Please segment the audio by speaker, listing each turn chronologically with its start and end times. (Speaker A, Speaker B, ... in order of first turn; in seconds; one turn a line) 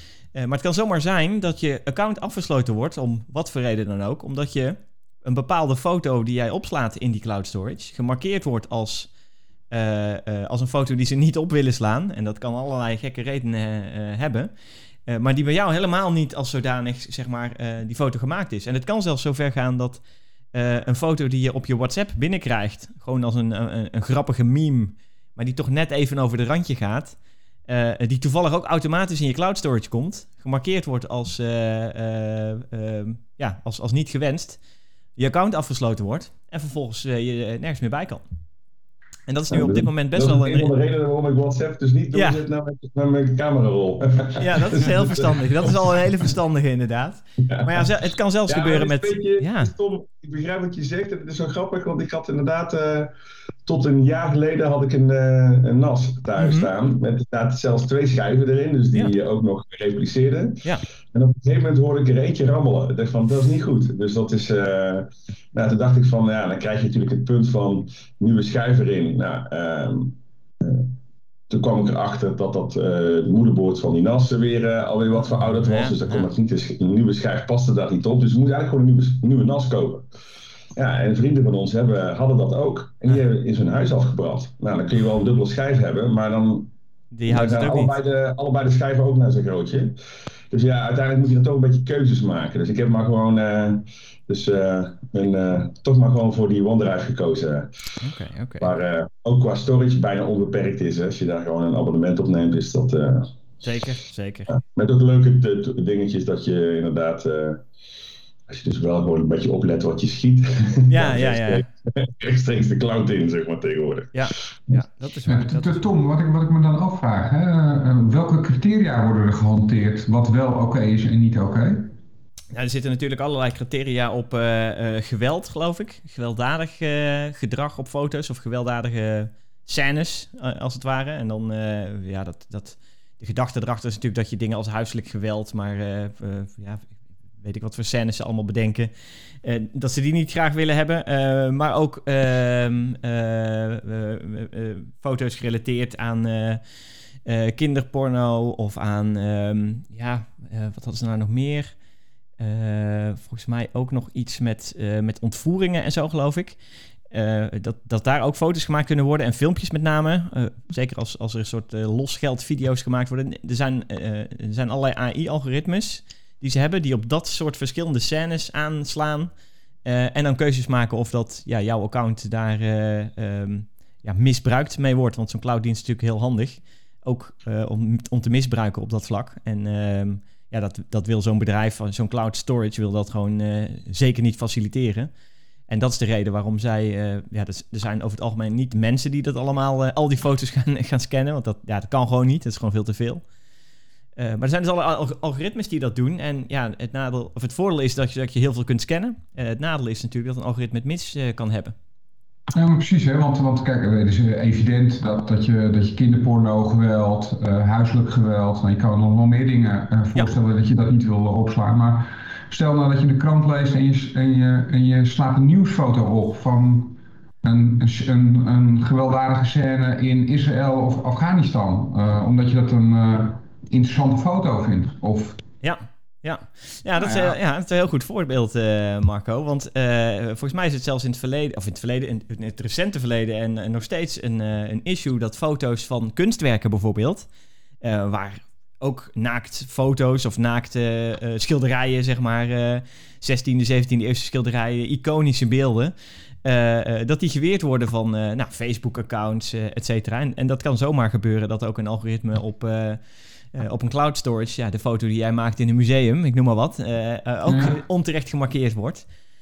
Speaker A: 0.3-9.1
Speaker A: 9.7-14.5
Speaker A: 15.1-34.6
Speaker A: 35.2-38.2
Speaker A: 39.3-40.7
Speaker B: 39.5-45.7
Speaker A: 42.1-42.4
Speaker A: 44.4-49.7
Speaker B: 47.5-47.7
Speaker B: 48.5-53.1
Speaker B: 53.7-70.9
Speaker A: 56.4-56.7
Speaker B: 71.5-80.1
Speaker A: 75.3-76.3
Speaker B: 80.8-86.7
Speaker A: 87.1-88.0
Speaker B: 87.3-90.0
Speaker B: 90.5-97.7
Speaker A: 98.0-98.7
Speaker B: 98.6-103.3
Speaker A: 103.6-104.5
Speaker B: 104.5-107.6
Speaker B: 108.5-114.3
Speaker A: 110.9-111.6
Speaker A: 114.1-115.9
Speaker C: 115.3-121.9
Speaker A: 122.5-146.7
Speaker A: 147.2-151.8
Speaker A: 152.4-156.6
Speaker A: 157.1-169.3
Speaker A: 169.8-185.1
Speaker A: 185.7-193.3
Speaker A: 194.2-201.8
Speaker C: 202.5-225.4
Speaker A: 225.6-237.3
Speaker C: 227.0-227.3
Speaker A: 237.8-259.1
Speaker C: 257.5-257.8